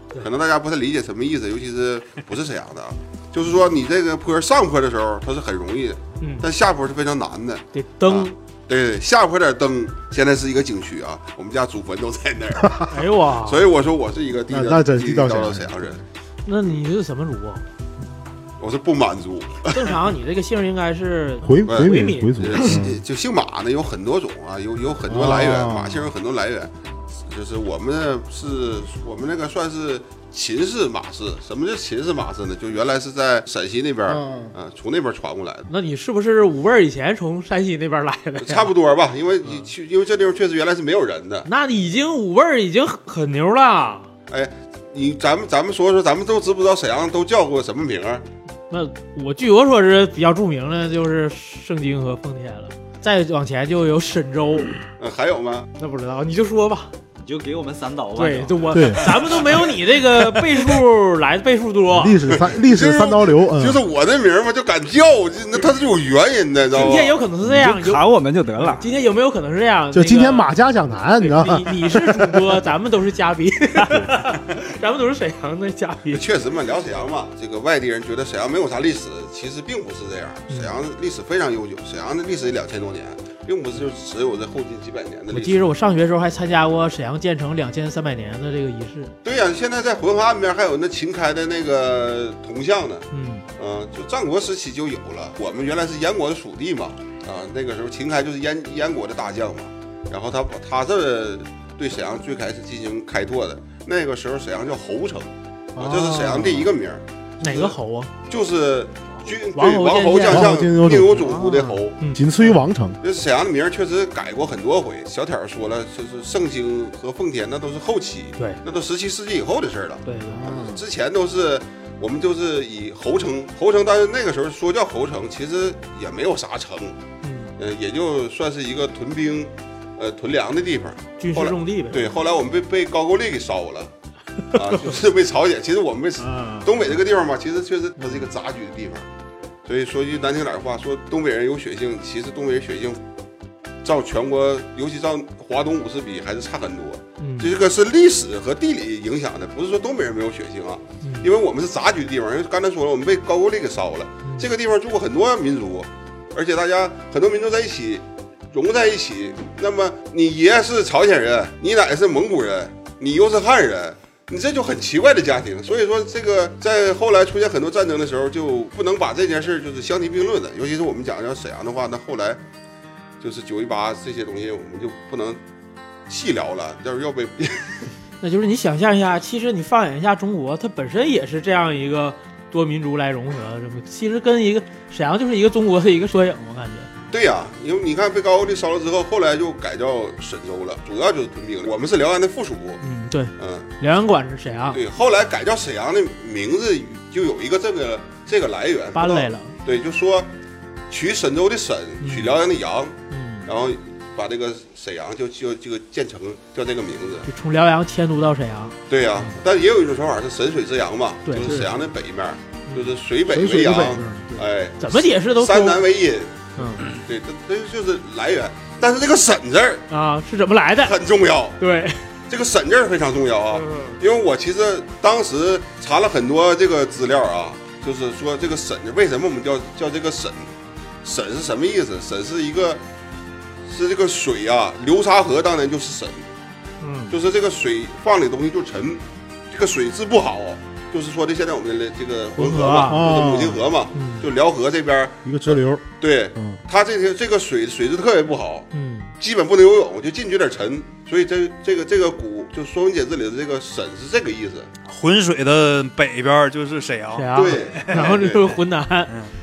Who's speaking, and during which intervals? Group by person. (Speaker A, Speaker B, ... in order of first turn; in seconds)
Speaker A: 0.2-12.9, 13.4-16.0, 18.6-19.9, 21.7-35.7, 38.4-41.5, 44.3-48.2, 55.0-55.7, 62.3-67.2, 76.1-85.7, 89.2-93.1, 93.6-107.8, 108.3-112.0, 113.0-127.0, 127.6-133.9, 134.5-139.1, 139.7-143.0, 143.8-172.4, 173.2-175.4, 176.1-177.9, 187.1-192.8, 193.4-193.7, 194.7-200.3, 200.9-207.3, 208.9-219.8, 220.8-221.6, 222.3-230.5, 231.0-232.8, 233.7-236.3, 237.1-248.7, 249.2-254.7, 257.4-258.6
Speaker B: 6.2-6.5, 7.7-8.3, 12.9-13.7, 16.5-17.6, 19.7-22.8, 35.7-38.7, 41.5-44.1, 48.7-54.8, 55.8-56.9, 58.2-62.2, 66.7-68.0, 68.6-70.5, 71.2-76.4, 85.3-89.2, 93.1-93.5, 107.4-108.1, 109.5-110.5, 120.1-120.4, 127.2-127.5, 131.2-132.1, 136.2-136.7, 147.2-147.5, 151.0-151.3, 154.2-154.5, 178.2-186.9, 192.8-194.8, 198.9-199.5, 202.0-202.4, 203.1-203.5, 207.3-209.3, 211.3-211.6, 214.8-215.8, 216.6-216.9, 219.9-220.9, 221.6-222.0, 223.6-224.0, 236.8-237.2, 242.3-243.0, 243.9-244.3, 248.7-249.1, 257.1-259.1
Speaker C: 14.5-16.0, 21.4-23.0, 25.1-26.1, 34.1-34.5, 58.7-59.2, 61.9-63.8, 69.9-72.4, 105.8-106.7, 110.3-113.0, 120.3-120.8, 211.4-211.7, 213.3-214.4, 242.9-243.7, 245.2-245.8
Speaker D: 57.2-59.0, 67.4-68.9
Speaker E: 254.9-258.0